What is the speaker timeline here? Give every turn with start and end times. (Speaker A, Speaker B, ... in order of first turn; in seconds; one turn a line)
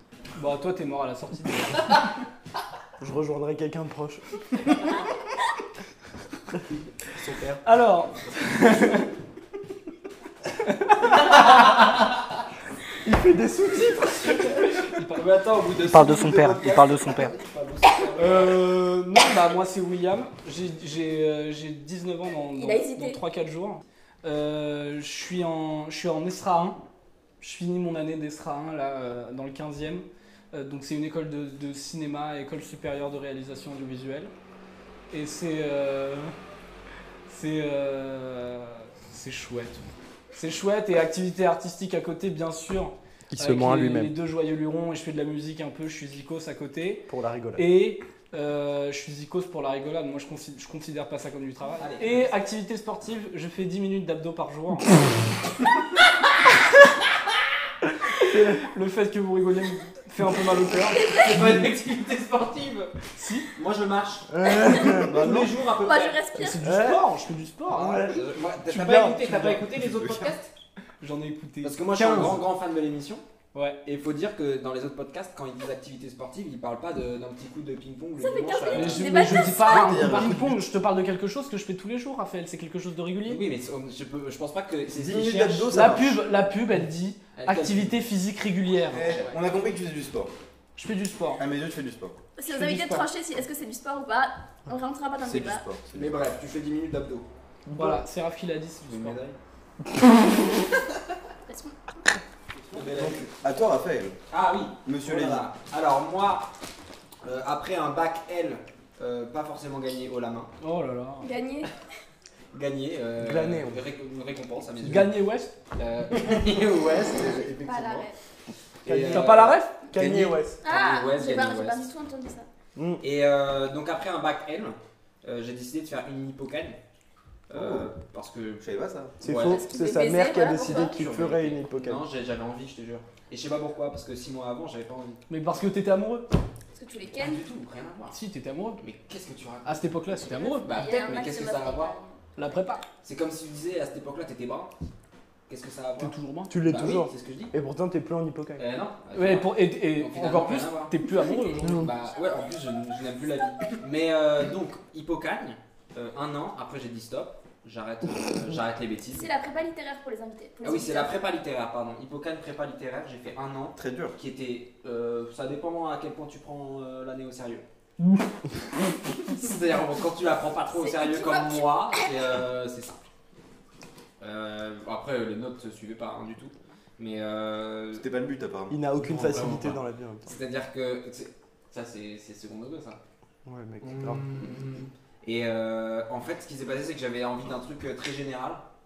Speaker A: 0.3-1.9
Speaker B: 3.0-4.2
Speaker C: 7.1-7.6
Speaker A: 7.6-9.1
Speaker B: 13.0-14.8
Speaker C: 14.8-18.6
Speaker A: 15.8-17.3
Speaker A: 18.2-26.8
Speaker D: 22.5-23.2
Speaker A: 27.4-34.3
Speaker A: 35.1-36.3
Speaker A: 37.3-39.8
Speaker A: 40.3-54.9
Speaker B: 43.3-44.1
Speaker B: 47.1-47.7
Speaker C: 51.8-52.3
Speaker B: 58.2-58.6
Speaker A: 58.6-61.0
Speaker D: 60.9-61.2
Speaker C: 61.0-62.9
Speaker A: 63.1-63.5
Speaker C: 63.5-66.2
Speaker B: 64.3-65.4
Speaker D: 64.5-65.0
Speaker E: 65.2-65.5
Speaker D: 65.7-66.6
Speaker A: 66.3-68.0
Speaker B: 66.6-67.0
Speaker C: 67.7-70.5
Speaker B: 67.7-68.2
Speaker A: 68.7-69.6
Speaker A: 71.0-72.4
Speaker C: 71.6-73.2
Speaker A: 73.5-73.8
Speaker C: 73.8-79.2
Speaker D: 78.2-80.1
Speaker A: 78.7-83.4
Speaker E: 79.3-80.7
Speaker C: 83.2-86.0
Speaker E: 84.9-86.2
Speaker A: 85.7-89.0
Speaker C: 87.3-88.0
Speaker E: 88.9-90.3
Speaker C: 88.9-89.4
Speaker A: 90.8-91.4
Speaker E: 91.4-92.2
Speaker D: 92.4-95.6
Speaker A: 92.5-93.1
Speaker E: 95.2-96.1
Speaker C: 95.9-97.3
Speaker B: 97.7-98.0
Speaker A: 97.7-99.2
Speaker C: 98.8-99.4
Speaker D: 101.5-101.7
Speaker C: 102.7-103.2
Speaker E: 102.9-104.2
Speaker C: 104.3-106.5
Speaker E: 104.8-105.4
Speaker C: 107.2-110.5
Speaker A: 110.6-111.4
Speaker D: 111.2-111.7
Speaker C: 112.5-115.2
Speaker B: 113.2-113.8
Speaker A: 114.8-115.5
Speaker C: 115.7-118.1
Speaker D: 117.5-118.2
Speaker C: 118.8-119.6
Speaker B: 118.8-120.5
Speaker A: 119.1-119.9
Speaker E: 120.0-120.3
Speaker D: 120.6-122.5
Speaker C: 120.7-121.9
Speaker B: 122.8-123.0
Speaker C: 123.0-126.8
Speaker C: 127.5-128.7
Speaker E: 127.5-127.9
Speaker E: 128.6-129.2
Speaker C: 129.2-129.6
Speaker B: 129.2-132.0
Speaker D: 129.4-131.0
Speaker C: 130.8-135.2
Speaker A: 135.3-136.3
Speaker D: 136.7-137.4
Speaker C: 137.1-138.2
Speaker A: 138.1-138.8
Speaker C: 138.8-139.9
Speaker A: 139.6-140.7
Speaker D: 140.2-142.2
Speaker C: 140.6-141.9
Speaker A: 142.4-142.8
Speaker C: 143.0-144.7
Speaker C: 145.5-147.5
Speaker A: 146.0-146.5
Speaker B: 146.5-148.6
Speaker C: 148.6-150.9
Speaker A: 149.1-151.9
Speaker C: 151.6-159.3
Speaker D: 159.1-161.2
Speaker C: 160.6-167.6
Speaker E: 163.7-164.1
Speaker C: 169.3-173.0
Speaker D: 170.7-171.7
Speaker C: 174.2-178.1
Speaker E: 178.0-178.8
Speaker B: 178.7-180.3
Speaker C: 178.9-183.0
Speaker B: 183.4-184.2
Speaker C: 183.8-188.6